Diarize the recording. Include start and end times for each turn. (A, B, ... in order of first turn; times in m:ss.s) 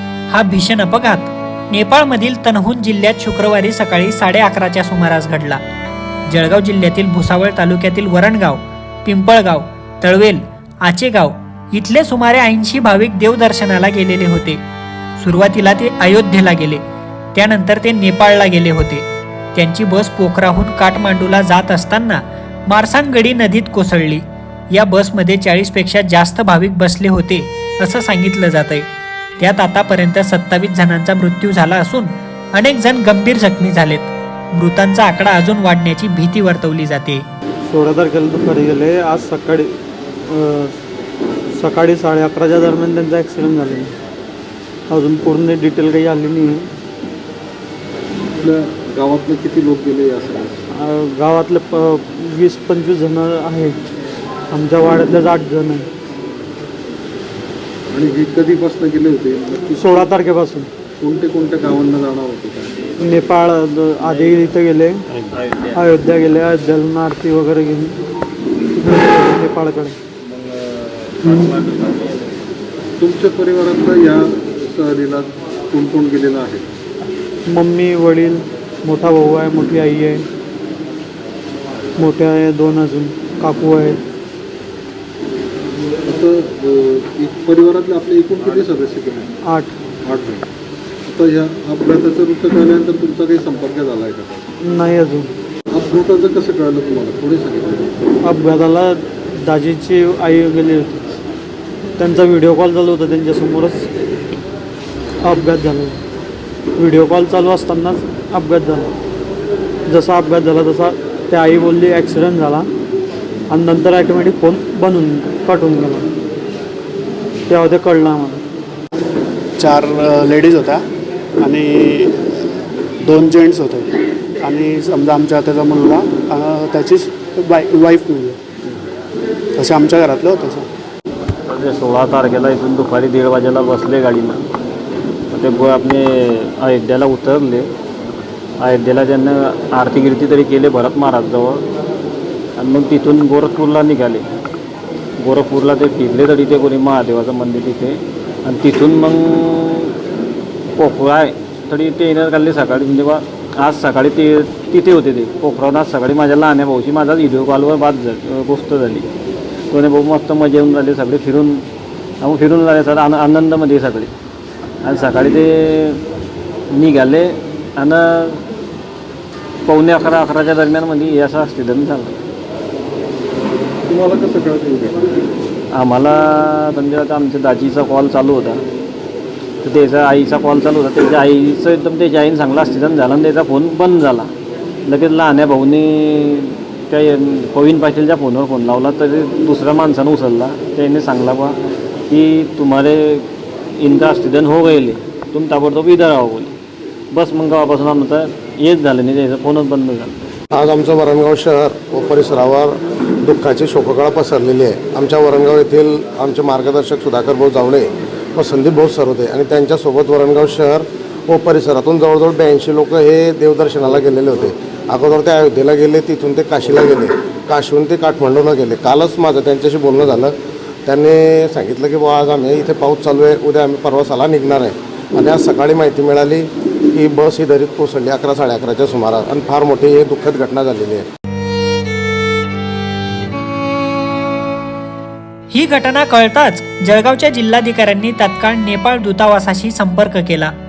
0:00.3-0:05.6 A
0:06.3-0:14.6 A
0:15.2-0:16.8 A
0:17.4-0:28.9 A
0:29.4-0:37.2 A
0:37.7-0:40.8 B
0:41.5-0:44.0 B
0:44.9-0:46.7 B
0:48.4-0:50.6 C
0:50.7-0:53.8 B
0:54.5-0:55.9 B
0:57.9-1:00.1 C
0:59.8-1:00.7 B
1:01.0-1:02.8 C
1:03.0-1:05.0 B
1:05.3-1:05.8 D
1:05.7-1:08.0 B
1:08.7-1:10.0 B
1:10.3-1:12.3 D
1:11.3-1:11.5 B
1:13.0-1:16.7 C
1:17.5-1:20.3 B
1:22.0-1:24.0 B
1:26.0-1:29.3 C
1:29.4-1:29.8 B
1:30.0-1:30.5 C
1:31.1-1:34.5 C
1:34.6-1:35.3 B
1:35.7-1:37.9 C
1:38.2-1:41.2 B
1:42.0-1:43.9 B
1:45.2-1:46.0 B
1:46.8-1:48.9 B
1:49.9-1:52.7 B
1:53.5-1:56.1 B
1:57.5-1:58.4 B
1:59.6-2:00.8 E
2:01.4-2:02.2 E
2:03.0-2:03.9 E
2:04.4-2:08.4 E
2:09.6-2:10.7 E
2:11.5-2:14.4 D
2:15.3-2:17.7 D
2:18.6-2:21.6 D
2:22.6-2:24.3 D
2:25.2-2:30.0 D
2:30.8-2:39.1 D
2:39.7-2:41.7 D
2:42.2-2:44.1 D
2:44.8-2:46.0 D
2:46.7-2:48.5 D
2:49.7-2:52.2 D
2:53.9-2:55.1 C
2:55.7-2:58.6 D
2:59.6-3:04.3 D
3:04.9-3:11.6 D
3:12.1-3:13.3 D
3:13.8-3:16.5 D
3:17.1-3:20.2 D
3:20.5-3:40.3 F
3:40.9-3:51.0 F
3:55.5-4:00.5 A